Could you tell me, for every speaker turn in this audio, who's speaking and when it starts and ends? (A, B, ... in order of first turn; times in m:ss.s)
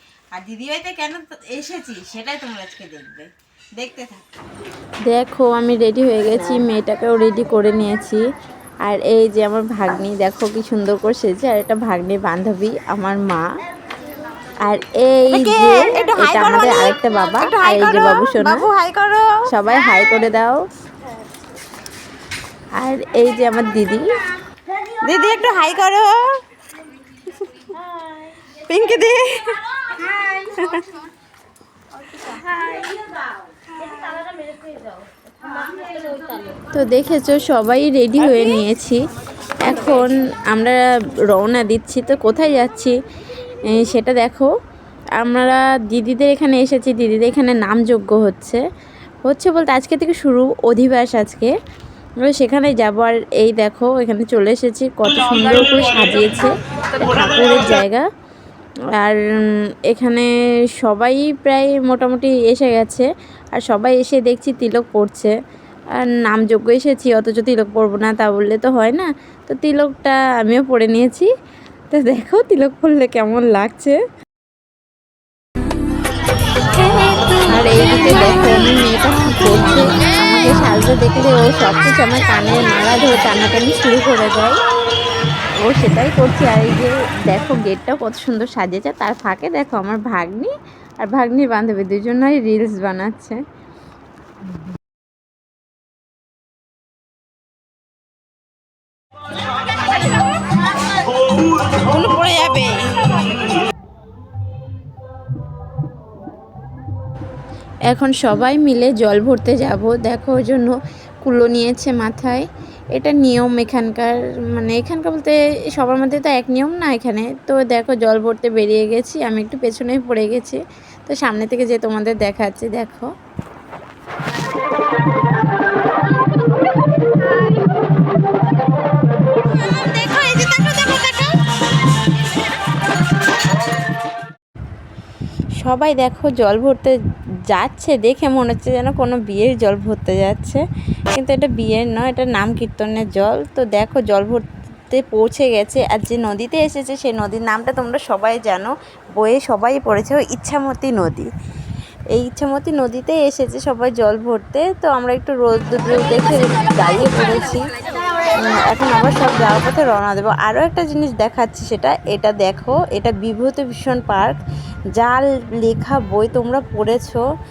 0:00.4-0:01.2 A
0:00.6-0:03.2 B
0:01.9-0:02.4 A
0:03.8-0:04.2 B
0:05.1-0:08.2 A
0:08.8-0:13.5 A
0:14.6-0:18.7 A
0:15.3-0:19.4 B
0:19.5-0:20.6 A
0:22.8-0:24.2 A
0:25.0-0:26.3 B
0:28.5-0:30.8 B
0:32.3-0:33.0 B
0:36.7-0:39.0 A
0:39.6-0:40.8 A
0:41.3-0:42.9 A
0:43.6-0:44.5 A
0:45.2-0:48.6 A
0:49.3-0:51.5 A
0:52.2-0:58.0 A
0:59.9-1:05.3 A
1:06.0-1:11.3 A
1:11.9-1:14.0 A
1:17.4-1:24.6 A
1:25.6-1:33.4 A
1:41.8-1:43.1 B
1:47.9-2:03.1 A
2:09.6-2:11.4 B
2:15.6-2:16.9 A
2:17.5-2:20.6 A
2:21.1-2:31.3 A
2:32.1-2:37.6 A
2:38.4-2:44.4 A
2:45.0-2:47.2 A